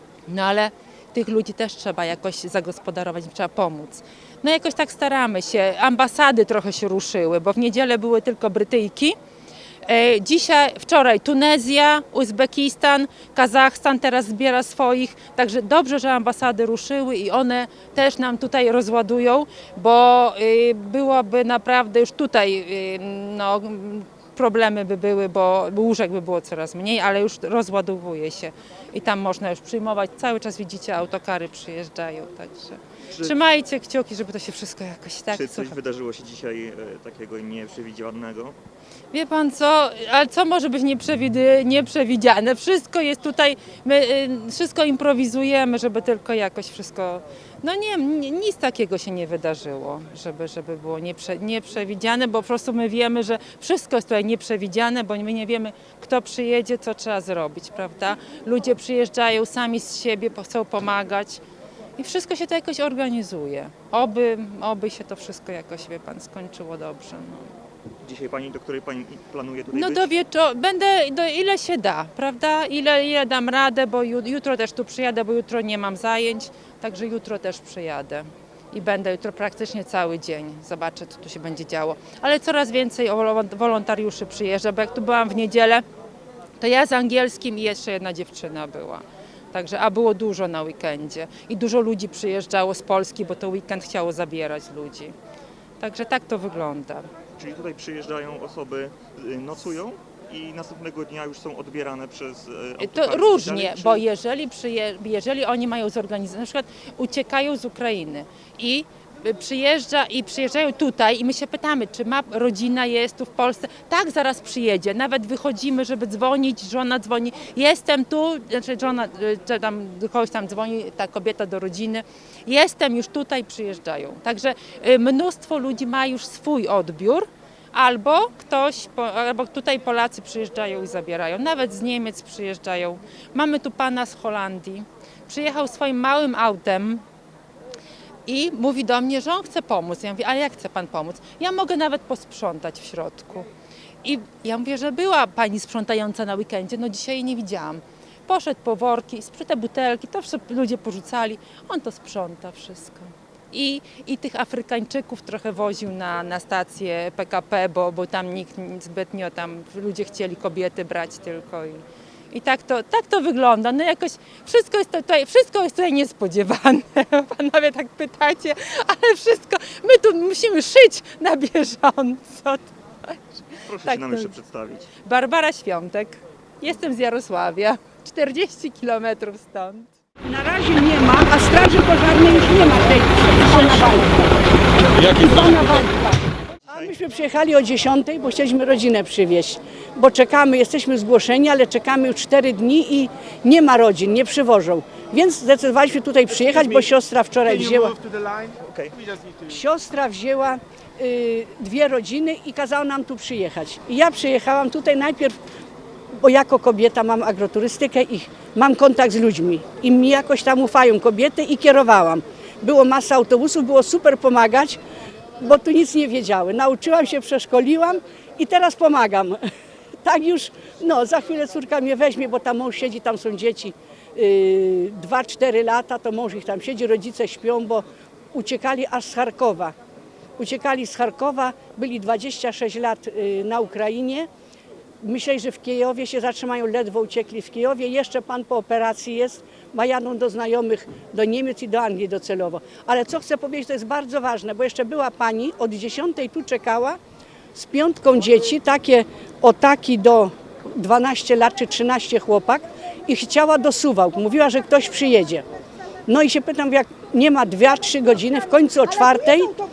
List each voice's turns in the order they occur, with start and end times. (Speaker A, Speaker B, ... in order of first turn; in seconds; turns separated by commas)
Speaker A: 0.3-9.2, Speaker A: 9.8-35.8, Speaker B: 35.3-38.6, Speaker A: 39.1-61.4, Speaker A: 62.0-67.5, Speaker B: 68.0-70.1, Speaker A: 69.7-85.8, Speaker A: 86.6-95.1, Speaker A: 95.8-97.1, Speaker B: 97.4-104.0, Speaker A: 102.8-137.0, Speaker A: 138.3-143.5, Speaker A: 144.0-173.2, Speaker B: 173.7-174.9, Speaker A: 173.8-174.3, Speaker A: 175.0-179.9, Speaker C: 180.3-184.3, Speaker C: 185.0-186.2, Speaker C: 186.7-198.0, Speaker B: 198.6-198.9, Speaker C: 199.5-205.3, Speaker C: 206.2-214.8, Speaker C: 215.4-219.4, Speaker C: 220.0-229.7, Speaker C: 230.4-234.3, Speaker C: 235.0-247.0, Speaker C: 247.5-255.4, Speaker C: 256.1-259.5